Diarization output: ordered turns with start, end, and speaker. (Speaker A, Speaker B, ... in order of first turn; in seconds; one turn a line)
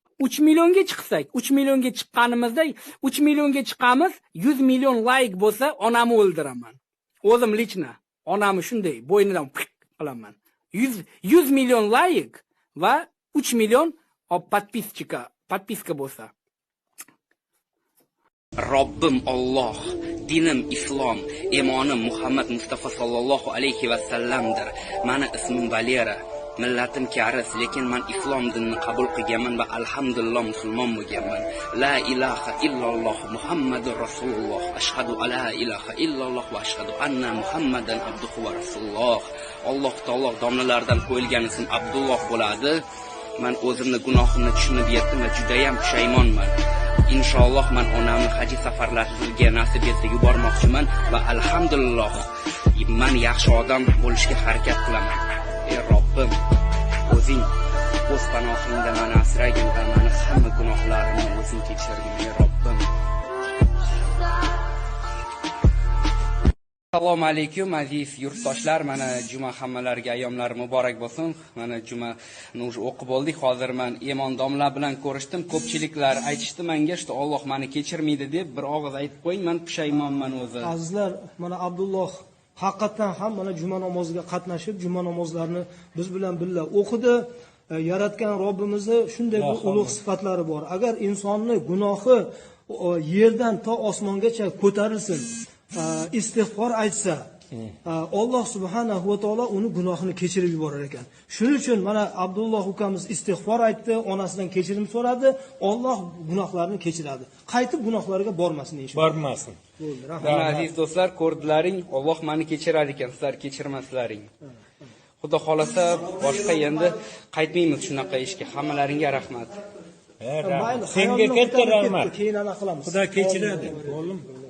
Speaker A: 0.2-16.3
Speaker B: 18.6-42.8
Speaker B: 43.4-46.5
Speaker B: 47.1-56.3
Speaker B: 57.0-57.5
Speaker B: 58.1-62.8
Speaker B: 66.9-80.7
Speaker C: 80.6-97.3
Speaker D: 89.4-90.0
Speaker C: 97.8-109.2
Speaker D: 108.9-109.6
Speaker C: 109.8-110.4
Speaker D: 110.2-110.7
Speaker B: 110.2-114.3
Speaker B: 115.2-119.6
Speaker D: 120.2-122.1
Speaker C: 120.4-124.1
Speaker D: 122.8-124.3